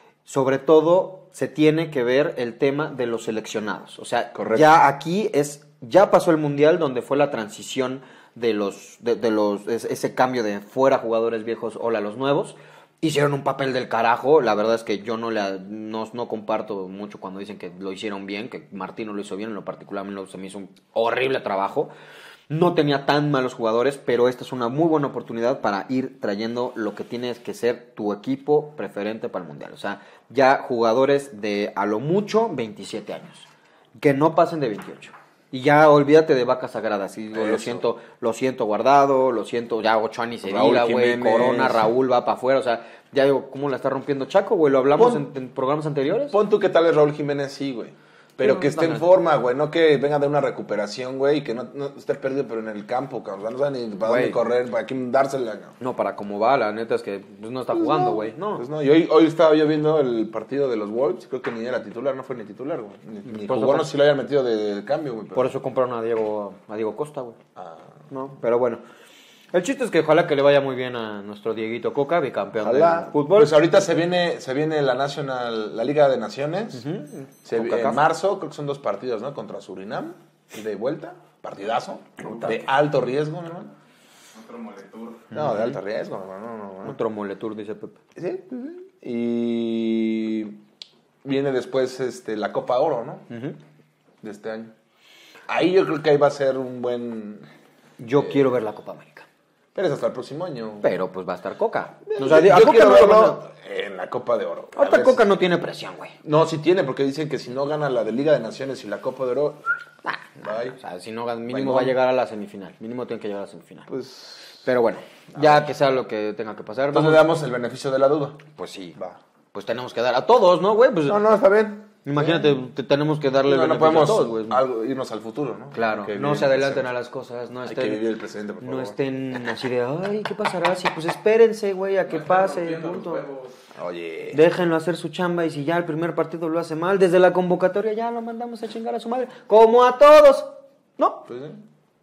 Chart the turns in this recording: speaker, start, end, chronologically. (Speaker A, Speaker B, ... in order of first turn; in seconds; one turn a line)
Speaker A: 0.2-21.9
Speaker B: 4.3-4.7
Speaker A: 22.5-46.4
Speaker B: 37.3-37.9
Speaker B: 40.4-41.9
Speaker B: 44.9-45.3
Speaker B: 46.1-55.8
Speaker A: 48.4-49.1
Speaker A: 54.0-54.4
Speaker A: 55.8-58.6
Speaker B: 57.7-65.5
Speaker A: 63.2-63.9
Speaker A: 65.3-67.4
Speaker B: 67.5-67.9
Speaker A: 68.1-68.8
Speaker A: 69.5-73.6
Speaker B: 72.6-76.8
Speaker A: 76.7-78.0
Speaker B: 77.4-83.7
Speaker A: 82.2-82.5
Speaker C: 84.3-85.3
Speaker A: 85.3-85.8
Speaker B: 85.3-87.0
Speaker A: 86.8-88.0
Speaker B: 88.2-90.6
Speaker B: 91.2-93.3
Speaker A: 93.3-93.6
Speaker B: 94.2-94.7
Speaker B: 95.5-97.5
Speaker A: 98.0-99.2
Speaker B: 99.7-100.9
Speaker A: 100.8-103.4
Speaker B: 102.2-105.2
Speaker A: 104.7-106.2
Speaker B: 106.2-109.7
Speaker A: 110.0-113.9
Speaker B: 110.4-110.8
Speaker B: 111.5-111.9
Speaker B: 113.9-114.7
Speaker A: 114.6-117.3
Speaker B: 115.4-115.7
Speaker B: 116.9-118.4
Speaker A: 118.5-119.0
Speaker A: 119.5-121.2
Speaker B: 121.1-122.5
Speaker A: 122.0-124.6
Speaker B: 123.4-126.9
Speaker A: 125.7-128.1
Speaker B: 127.6-129.0
Speaker A: 128.6-133.2
Speaker C: 132.1-133.6
Speaker B: 133.7-134.4
Speaker A: 134.3-141.3
Speaker B: 141.3-141.6